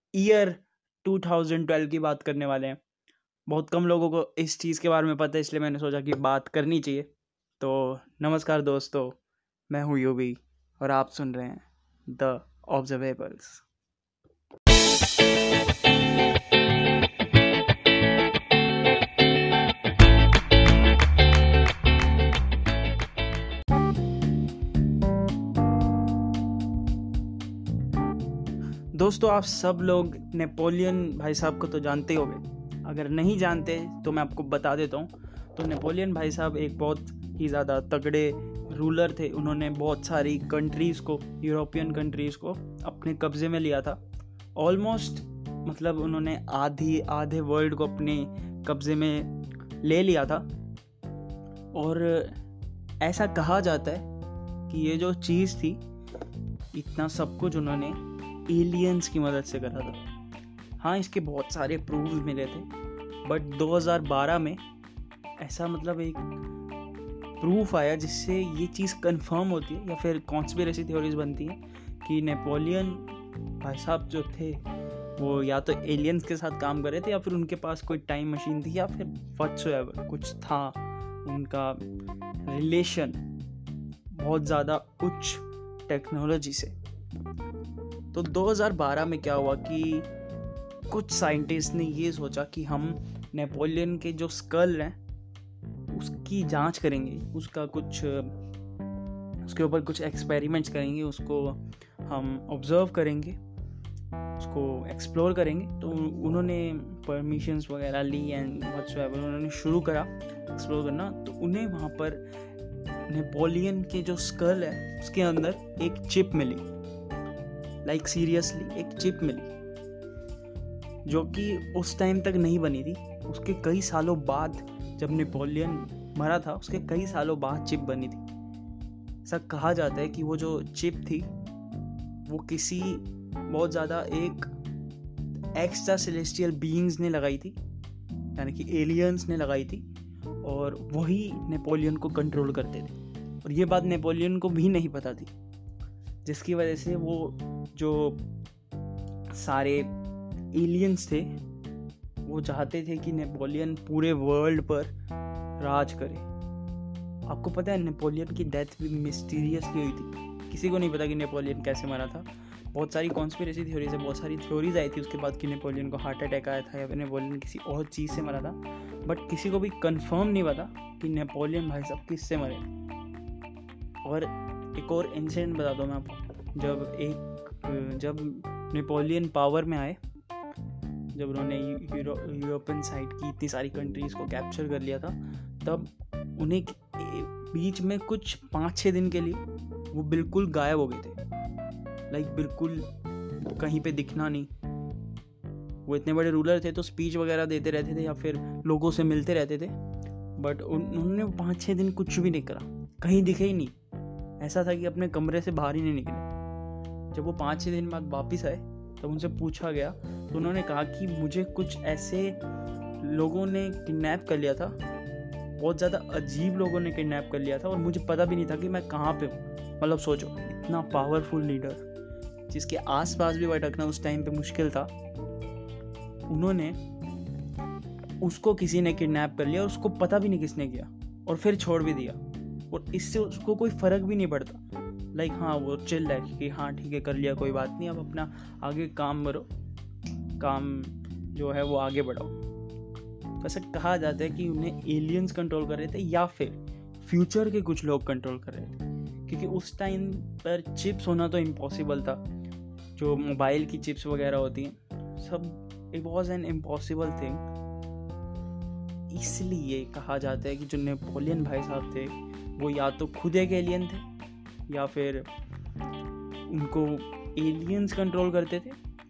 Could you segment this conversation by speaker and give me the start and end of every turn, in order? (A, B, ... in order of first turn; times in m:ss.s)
0:00.1-0:02.8 A
0:03.5-0:07.1 A
0:07.6-0:09.2 A
0:09.7-0:13.6 A
0:28.9-0:44.0 A
0:44.5-0:50.5 A
0:51.7-0:52.4 A
0:53.0-0:54.1 A
0:54.7-0:55.8 A
0:56.7-1:00.0 A
1:00.8-1:02.7 A
1:03.2-1:04.6 A
1:05.4-1:06.2 A
1:07.4-1:14.6 A
1:15.2-1:21.8 A
1:22.5-1:23.2 A
1:24.1-1:26.7 A
1:28.1-1:30.1 A
1:30.9-1:35.0 A
1:35.9-1:38.4 A
1:39.4-1:43.4 A
1:44.4-1:52.2 A
1:53.1-1:56.6 A
1:57.8-1:59.5 A
2:01.1-2:08.2 A
2:09.2-2:11.3 A
2:12.2-2:14.5 A
2:15.5-2:17.6 A
2:18.3-2:19.8 A
2:20.4-2:25.3 A
2:26.2-2:28.2 A
2:29.3-2:29.9 A
2:30.5-2:31.3 A
2:32.2-2:34.9 A
2:35.6-2:36.3 A
2:37.3-2:52.7 A
2:54.0-3:00.0 A
3:01.1-3:11.2 A
3:12.1-3:12.9 A
3:13.4-3:14.5 A
3:15.8-3:19.7 A
3:20.4-3:23.7 A
3:24.4-3:26.3 A
3:27.1-3:32.4 A
3:33.0-3:34.8 A
3:35.6-3:41.8 A
3:42.5-3:44.9 A
3:46.3-3:46.8 A
3:48.2-3:54.6 A
3:55.1-3:59.5 A
4:00.4-4:02.4 A
4:03.4-4:12.2 A
4:13.0-4:17.4 A
4:19.1-4:24.1 A
4:24.7-4:25.3 A
4:26.5-4:28.8 A